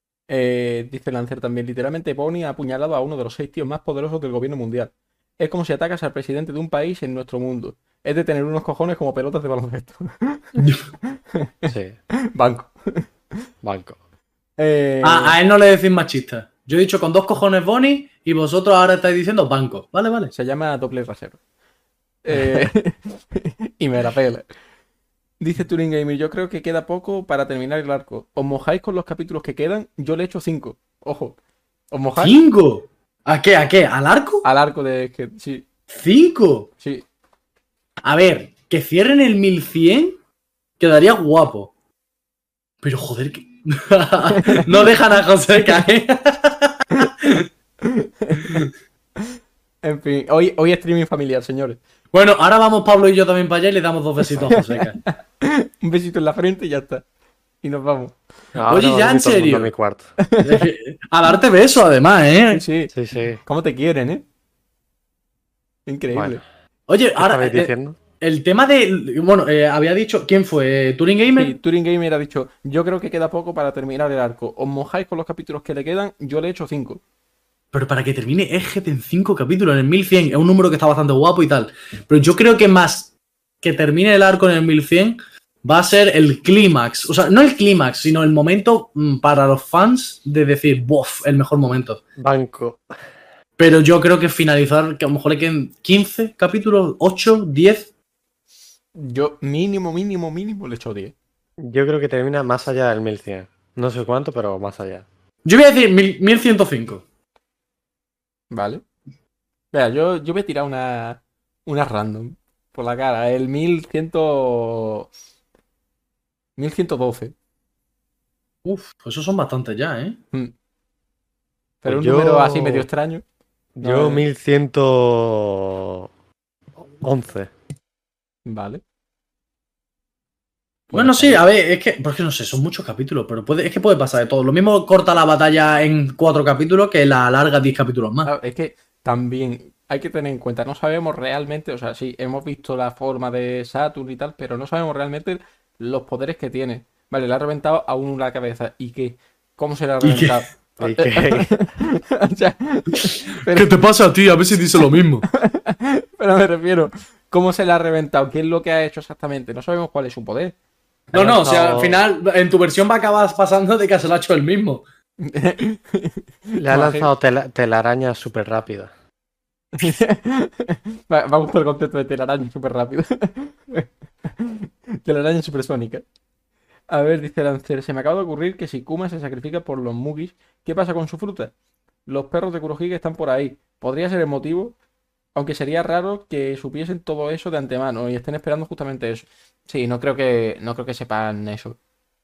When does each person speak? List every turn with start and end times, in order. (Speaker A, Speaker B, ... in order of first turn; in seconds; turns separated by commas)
Speaker A: 0.3-11.7, Speaker B: 10.6-10.8, Speaker C: 11.7-11.9, Speaker A: 12.3-13.1, Speaker C: 13.6-13.9, Speaker A: 14.6-15.4, Speaker B: 15.0-20.3, Speaker A: 20.3-21.4, Speaker A: 22.2-24.4, Speaker A: 25.4-31.4, Speaker A: 31.9-32.4, Speaker B: 32.2-34.4, Speaker A: 34.4-35.6, Speaker B: 35.9-36.7, Speaker B: 38.0-40.2, Speaker B: 40.8-41.7, Speaker B: 42.8-47.5, Speaker A: 44.3-44.7, Speaker A: 46.9-47.2, Speaker A: 47.8-51.8, Speaker B: 52.1-55.0, Speaker A: 54.5-57.0, Speaker A: 57.6-58.1, Speaker C: 58.5-60.1, Speaker B: 58.7-59.7, Speaker A: 60.2-60.7, Speaker B: 60.4-62.6, Speaker A: 62.5-62.9, Speaker C: 62.9-63.4, Speaker A: 63.4-64.2, Speaker A: 65.8-66.4, Speaker C: 66.1-66.4, Speaker B: 66.9-71.5, Speaker C: 67.2-68.0, Speaker A: 71.3-77.0, Speaker B: 77.7-83.1, Speaker B: 83.6-92.0, Speaker C: 92.2-92.8, Speaker B: 93.6-97.9, Speaker A: 99.0-101.1, Speaker C: 101.6-105.0, Speaker B: 105.4-107.0, Speaker A: 108.5-108.8, Speaker A: 109.7-115.1, Speaker A: 116.6-117.3, Speaker B: 118.6-120.2, Speaker A: 121.8-123.2, Speaker C: 121.8-122.9, Speaker C: 123.8-126.1, Speaker A: 123.8-124.2, Speaker C: 127.0-127.5, Speaker A: 128.4-128.8, Speaker B: 130.9-138.3, Speaker C: 131.0-131.3, Speaker A: 131.0-131.3, Speaker A: 138.2-153.7, Speaker B: 150.0-150.4, Speaker C: 150.8-151.6, Speaker B: 153.5-155.2, Speaker A: 155.3-160.5, Speaker B: 161.1-164.8, Speaker C: 161.1-162.0, Speaker A: 165.2-167.1, Speaker C: 166.6-168.9, Speaker A: 169.7-176.0, Speaker A: 176.9-181.5, Speaker A: 182.1-184.7, Speaker A: 185.3-191.8